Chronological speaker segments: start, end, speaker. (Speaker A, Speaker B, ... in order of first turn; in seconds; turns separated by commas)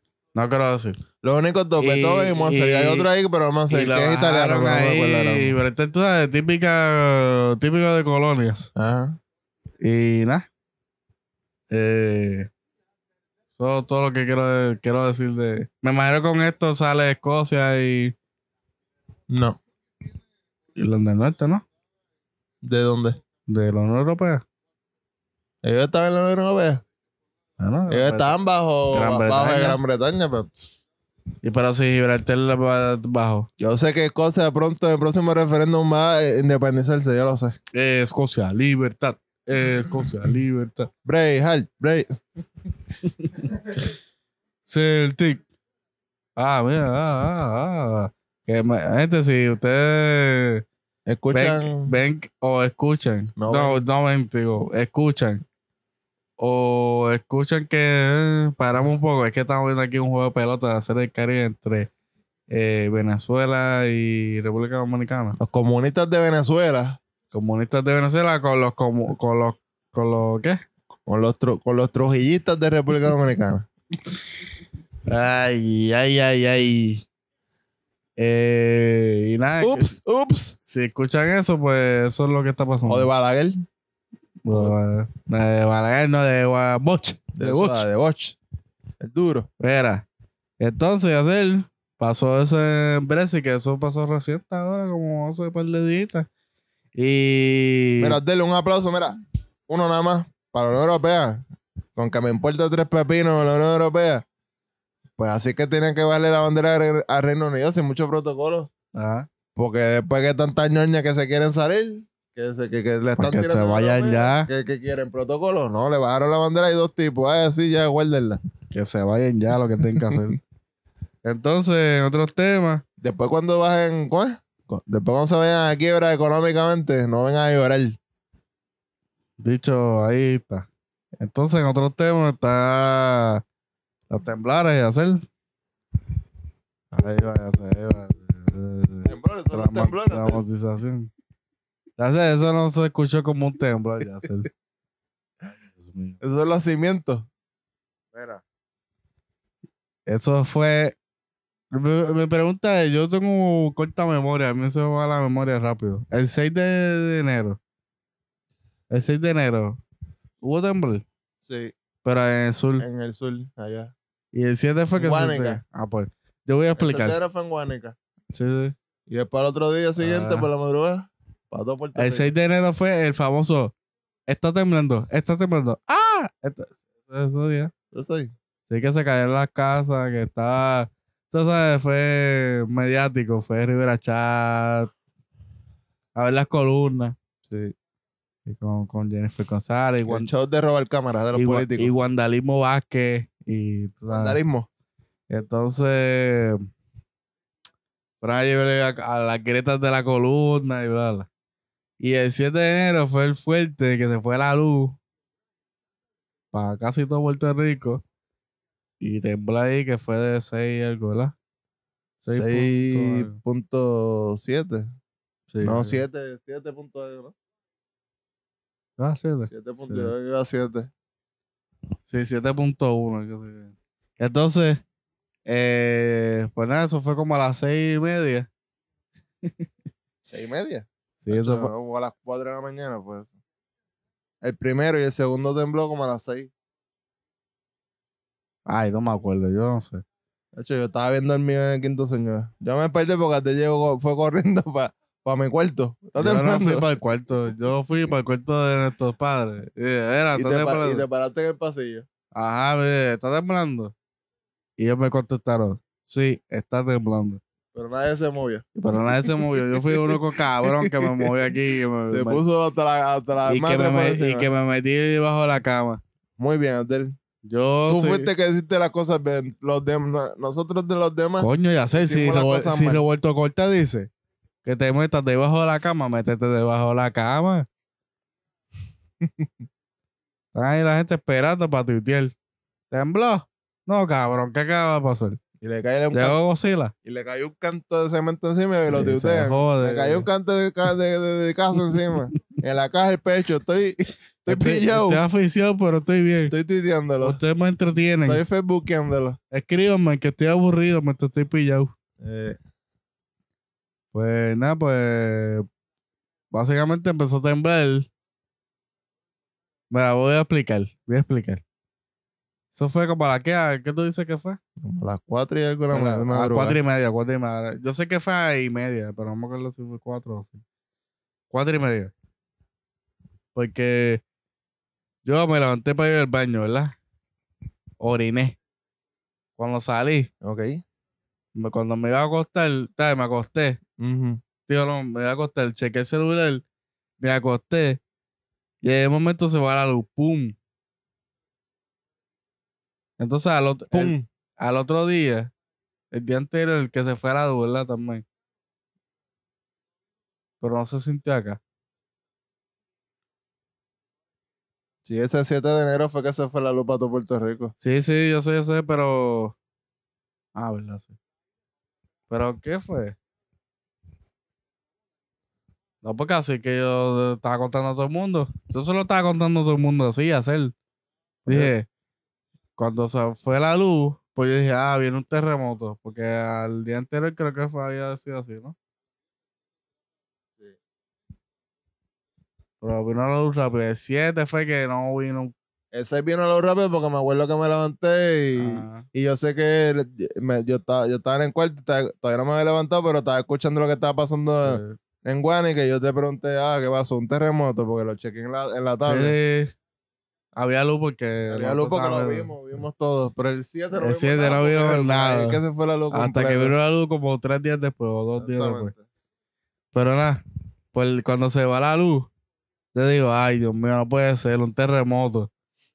Speaker A: 0.3-1.0, Speaker B: 1.2-5.6, Speaker A: 1.8-3.1, Speaker A: 3.7-8.7, Speaker B: 8.8-9.2, Speaker A: 9.8-10.5, Speaker A: 11.7-12.5, Speaker A: 13.6-18.1, Speaker B: 19.3-19.6, Speaker A: 20.8-21.6, Speaker B: 22.6-23.2, Speaker A: 23.5-24.4, Speaker B: 25.6-26.8, Speaker A: 27.6-28.4, Speaker B: 27.9-30.5, Speaker A: 28.9-29.8, Speaker A: 31.4-33.5, Speaker B: 33.6-37.6, Speaker A: 37.7-40.9, Speaker B: 41.0-42.1, Speaker A: 44.7-45.4, Speaker A: 46.4-50.6, Speaker B: 51.1-51.9, Speaker A: 51.3-55.4, Speaker B: 53.4-53.8, Speaker A: 56.4-61.9, Speaker A: 62.5-65.4, Speaker B: 65.4-67.0, Speaker A: 67.3-70.6, Speaker B: 71.1-73.7, Speaker A: 75.1-77.0, Speaker A: 78.2-80.0, Speaker B: 79.6-80.6, Speaker A: 80.7-83.1, Speaker B: 82.9-83.6, Speaker A: 84.4-87.8, Speaker B: 87.3-88.4, Speaker B: 89.0-89.5, Speaker A: 89.6-90.0, Speaker A: 90.6-96.3, Speaker A: 97.0-98.2, Speaker B: 98.0-99.2, Speaker B: 99.7-101.4, Speaker B: 102.0-104.2, Speaker B: 105.2-108.7, Speaker A: 108.9-109.3, Speaker B: 109.6-118.4, Speaker A: 113.2-114.5, Speaker A: 118.7-120.4, Speaker A: 121.2-122.8, Speaker B: 123.0-128.0, Speaker A: 129.4-130.7, Speaker A: 131.2-133.4, Speaker A: 134.1-135.3, Speaker A: 136.9-141.1, Speaker B: 139.1-140.4, Speaker A: 142.0-144.5, Speaker A: 145.7-146.2, Speaker B: 146.2-147.3, Speaker A: 148.1-148.4, Speaker A: 150.1-151.0, Speaker A: 151.7-157.6, Speaker A: 158.9-159.8, Speaker A: 160.4-161.1, Speaker B: 161.4-161.7, Speaker A: 162.0-162.9, Speaker B: 162.8-163.9, Speaker A: 164.3-167.2, Speaker B: 165.0-165.6, Speaker B: 166.8-167.9, Speaker A: 168.3-168.8, Speaker B: 169.1-172.3, Speaker A: 170.0-170.5, Speaker A: 171.9-173.7, Speaker A: 174.3-177.7, Speaker B: 177.9-178.3, Speaker A: 178.7-184.9, Speaker A: 186.2-187.2, Speaker B: 187.5-187.8, Speaker A: 188.5-190.3, Speaker B: 190.1-191.9, Speaker A: 191.3-194.4, Speaker B: 194.1-194.7, Speaker A: 195.3-196.7, Speaker A: 198.2-201.3, Speaker A: 202.0-205.0, Speaker A: 206.5-208.0, Speaker A: 209.0-211.3, Speaker A: 212.2-213.4, Speaker B: 212.3-214.9, Speaker A: 215.5-216.0, Speaker B: 215.6-217.3, Speaker A: 219.0-220.1, Speaker B: 219.5-220.9, Speaker A: 222.1-224.8, Speaker A: 225.5-228.5, Speaker B: 230.2-233.3, Speaker A: 231.2-231.7, Speaker B: 234.4-236.5, Speaker A: 238.7-240.0, Speaker B: 240.6-246.9, Speaker A: 246.2-251.1, Speaker B: 250.4-252.1, Speaker A: 252.3-253.9, Speaker A: 254.8-257.4, Speaker B: 257.7-261.3, Speaker A: 258.8-262.4, Speaker B: 262.1-264.5, Speaker A: 263.4-266.0, Speaker B: 266.4-267.1, Speaker A: 267.4-268.3, Speaker B: 267.9-271.5, Speaker A: 271.4-274.1, Speaker B: 272.0-273.0, Speaker A: 274.6-277.7, Speaker A: 280.6-282.3, Speaker A: 282.9-285.4, Speaker B: 285.6-286.4, Speaker A: 286.1-286.9, Speaker B: 287.0-295.2, Speaker A: 288.9-290.3, Speaker A: 294.5-296.5, Speaker B: 296.5-297.4, Speaker A: 297.2-298.4, Speaker B: 298.3-299.4, Speaker A: 299.5-301.9, Speaker B: 302.2-302.6, Speaker A: 304.1-305.7, Speaker A: 306.5-308.1, Speaker A: 309.9-311.6, Speaker A: 312.7-314.6, Speaker B: 314.8-316.8, Speaker A: 315.9-320.6, Speaker A: 321.5-322.1, Speaker A: 323.6-324.2, Speaker A: 325.2-327.0, Speaker A: 328.0-328.6, Speaker A: 329.6-330.3, Speaker B: 330.4-330.8, Speaker A: 331.6-333.8, Speaker B: 334.0-334.4, Speaker A: 334.7-336.6, Speaker A: 337.2-338.0, Speaker A: 338.8-340.6, Speaker A: 343.2-345.5, Speaker B: 343.9-344.2, Speaker A: 346.1-348.2, Speaker A: 350.6-351.6, Speaker B: 355.1-357.7, Speaker A: 357.8-359.6, Speaker A: 360.6-361.1, Speaker A: 362.3-363.2, Speaker A: 366.0-370.7, Speaker A: 371.4-371.9, Speaker B: 371.5-371.7, Speaker A: 372.8-378.8, Speaker A: 382.8-385.5, Speaker B: 385.9-399.4, Speaker A: 388.6-389.1, Speaker A: 394.6-395.0, Speaker A: 399.1-399.7, Speaker A: 400.6-402.8, Speaker B: 401.5-406.8, Speaker A: 403.9-408.9, Speaker B: 408.4-409.0, Speaker A: 409.9-410.4, Speaker A: 410.9-412.3, Speaker A: 412.9-415.5